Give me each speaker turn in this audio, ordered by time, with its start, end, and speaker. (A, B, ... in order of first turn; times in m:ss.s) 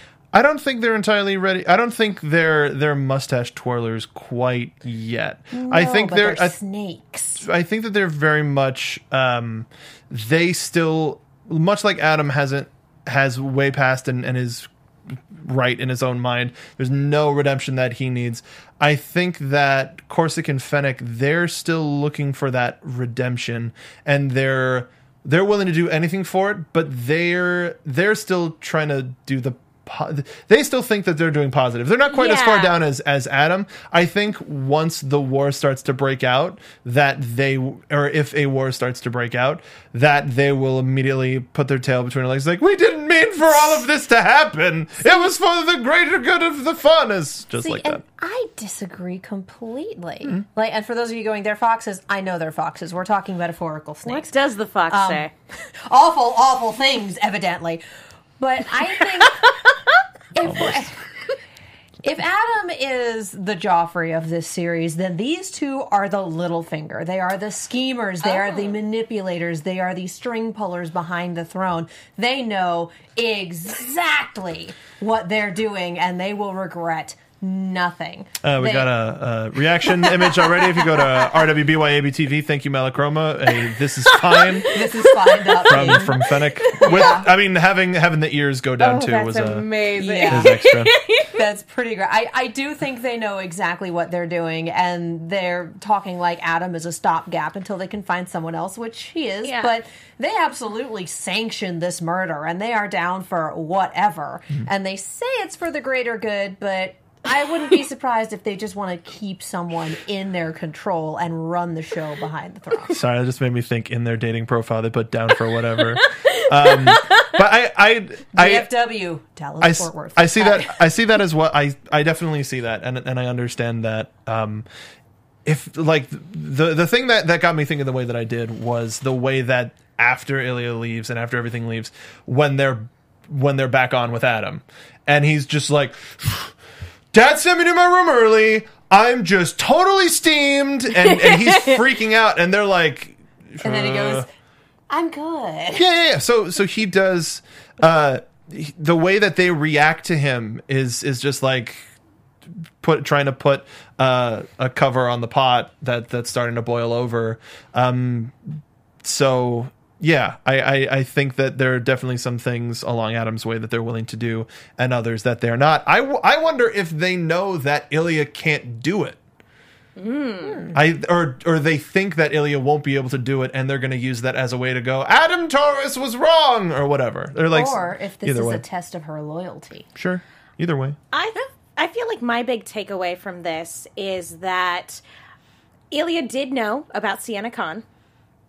0:00.3-0:06.6 A
0:05.5-0:07.5 B
0:07.4-0:48.0 A
0:32.1-0:32.8 C
0:45.0-0:45.3 B
0:47.6-0:54.4 B
0:54.1-0:55.3 C
0:54.9-0:55.3 B
0:55.9-0:57.8 B
0:58.4-0:59.5 B
0:59.2-0:59.8 C
1:00.3-1:00.9 B
1:00.4-1:00.9 A
1:02.0-1:18.9 B
1:08.4-1:08.7 C
1:18.4-1:24.7 A
1:24.0-1:27.2 C
1:24.7-1:26.2 B
1:25.7-1:29.7 A
1:26.8-1:27.3 B
1:28.8-1:31.4 C
1:30.0-1:30.6 B
1:30.2-1:30.9 A
1:31.3-1:53.0 B
1:39.4-1:39.7 C
1:52.9-1:58.7 A
1:56.0-1:57.3 C
1:58.4-2:00.7 B
1:59.6-2:04.6 A
2:05.4-2:16.5 A
2:17.1-2:24.3 A
2:21.0-2:21.8 C
2:23.6-2:24.3 B
2:24.9-2:25.8 B
2:25.8-2:31.8 A
2:32.8-2:49.2 A
2:50.0-2:50.7 C
2:50.4-2:50.8 B
2:50.7-2:58.6 A
2:57.5-2:59.9 B
3:00.0-3:01.0 A
3:01.1-3:05.0 C
3:05.9-3:07.8 C